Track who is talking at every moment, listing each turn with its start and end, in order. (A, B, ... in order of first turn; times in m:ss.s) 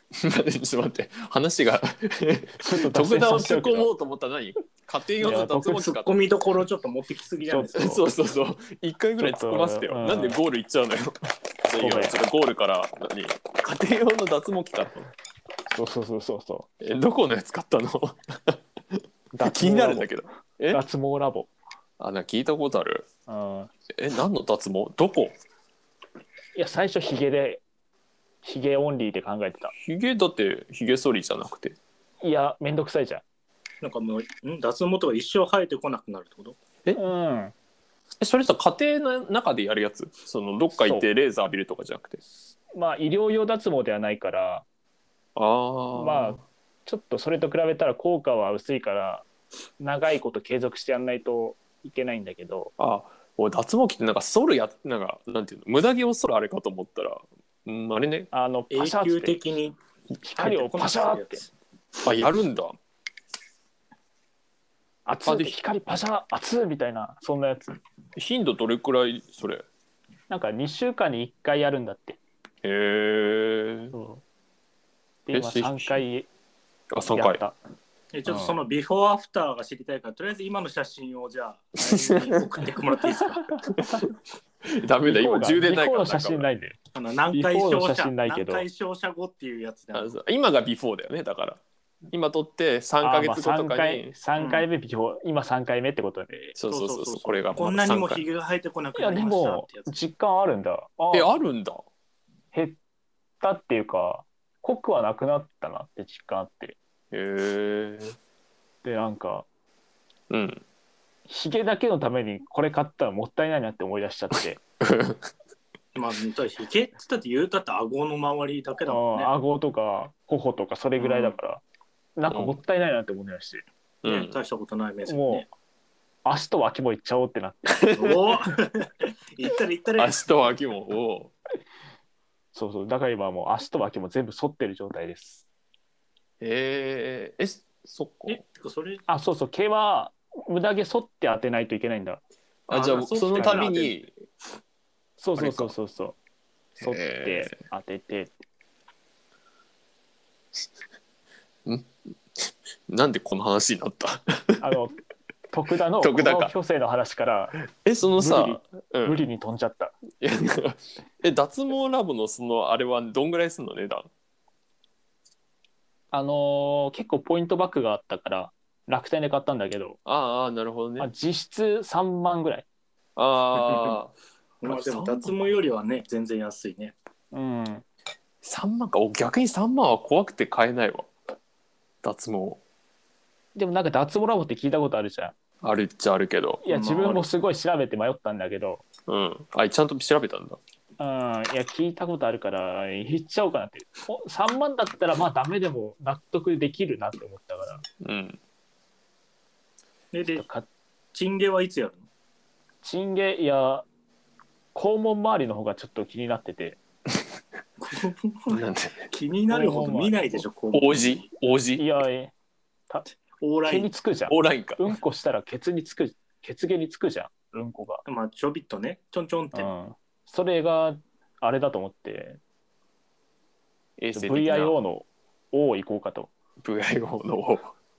0:00.1-0:06.3 A
0:02.6-0:03.9 B
0:05.2-0:05.9 B
0:05.8-0:08.0 C
0:07.5-0:08.0 B
0:07.8-0:15.1 A
0:09.2-0:10.4 B
0:11.8-0:12.2 B
0:15.7-0:16.7 B
0:16.8-0:20.8 A
0:19.3-0:20.1 B
0:20.7-0:21.5 B
0:22.0-0:23.0 A
0:23.3-0:23.7 B
0:24.0-0:25.4 A
0:26.6-0:27.6 B
0:28.4-0:29.7 B
0:29.8-0:31.8 A
0:32.2-0:33.2 B
0:33.8-0:36.6 C
0:36.9-0:37.5 B
0:38.2-0:42.2 A
0:40.8-0:41.1 B
0:42.4-0:44.6 B
0:45.4-0:46.4 A
0:45.9-0:49.3 B
0:49.8-0:52.7 B
0:52.8-0:58.3 A
0:58.3-0:59.4 B
0:58.7-0:59.7 C
1:00.2-1:01.4 B
1:00.4-1:01.5 C
1:02.0-1:02.8 A
1:05.0-1:07.7 B
1:05.2-1:05.5 A
1:08.2-1:09.6 A
1:10.3-1:12.2 B
1:12.6-1:13.9 A
1:13.9-1:14.2 B
1:15.2-1:16.3 B
1:15.3-1:16.0 A
1:16.9-1:17.4 A
1:17.1-1:17.6 B
1:18.1-1:23.4 C
1:18.3-1:18.5 B
1:21.8-1:22.6 A
1:23.3-1:24.0 B
1:23.7-1:26.5 A
1:25.0-1:26.8 B
1:26.9-1:30.2 C
1:27.3-1:28.6 B
1:29.9-1:31.6 A
1:32.1-1:34.2 A
1:33.0-1:36.6 B
1:34.4-1:34.7 C
1:36.6-1:38.2 A
1:36.7-1:39.9 C
1:39.0-1:41.3 B
1:41.1-1:41.8 A
1:42.5-1:42.8 B
1:43.4-1:46.8 B
1:47.1-1:48.2 A
1:48.8-1:49.4 B
1:50.3-1:50.6 A
1:51.3-1:54.6 B
1:54.8-1:55.3 A
1:55.9-1:59.3 C
1:58.8-2:01.6 B
2:01.0-2:01.4 A
2:02.2-2:03.6 B
2:02.3-2:02.6 A
2:04.0-2:04.4 A
2:04.0-2:05.5 C
2:05.1-2:05.4 B
2:06.2-2:07.9 B
2:07.8-2:08.2 A
2:07.9-2:10.2 C
2:10.0-2:11.3 A
2:12.5-2:15.4 B
2:16.4-2:18.4 A
2:18.3-2:19.0 C
2:19.1-2:22.2 B
2:22.7-2:24.1 A
2:22.7-2:24.0 C
2:25.2-2:26.2 B
2:25.4-2:25.7 A
2:26.8-2:28.3 B
2:26.8-2:27.5 A
2:31.6-2:34.6 A
2:34.6-2:34.9 B
2:35.5-2:37.6 B
2:36.0-2:36.5 A
2:37.8-2:39.2 A
2:38.2-2:39.9 B
2:40.2-2:44.1 A
2:46.1-2:50.0 B
2:50.0-2:51.1 A
2:51.0-2:52.6 B
2:53.2-2:54.1 A
2:54.6-2:56.9 C
2:54.6-2:55.6 A
2:57.3-2:57.8 B
2:58.4-3:01.1 A
3:02.0-3:02.6 A
3:03.5-3:05.3 B
3:05.6-3:06.6 A
3:06.6-3:08.8 B
3:06.7-3:07.3 C
3:09.1-3:10.6 A
3:11.0-3:17.8 B
3:18.0-3:18.4 A
3:20.1-3:20.4 C
3:20.3-3:20.7 B
3:21.1-3:22.0 C
3:22.8-3:23.8 B
3:24.7-3:26.8 B
3:27.8-3:31.2 C
3:28.5-3:29.1 A
3:29.5-3:30.4 B
3:30.7-3:31.8 A
3:31.8-3:32.3 B
3:33.4-3:33.9 C
3:33.6-3:38.0 B
3:34.3-3:34.9 A
3:38.0-3:39.7 C
3:39.5-3:42.4 B
3:44.0-3:44.7 A
3:44.1-3:46.3 B
3:46.6-3:47.7 A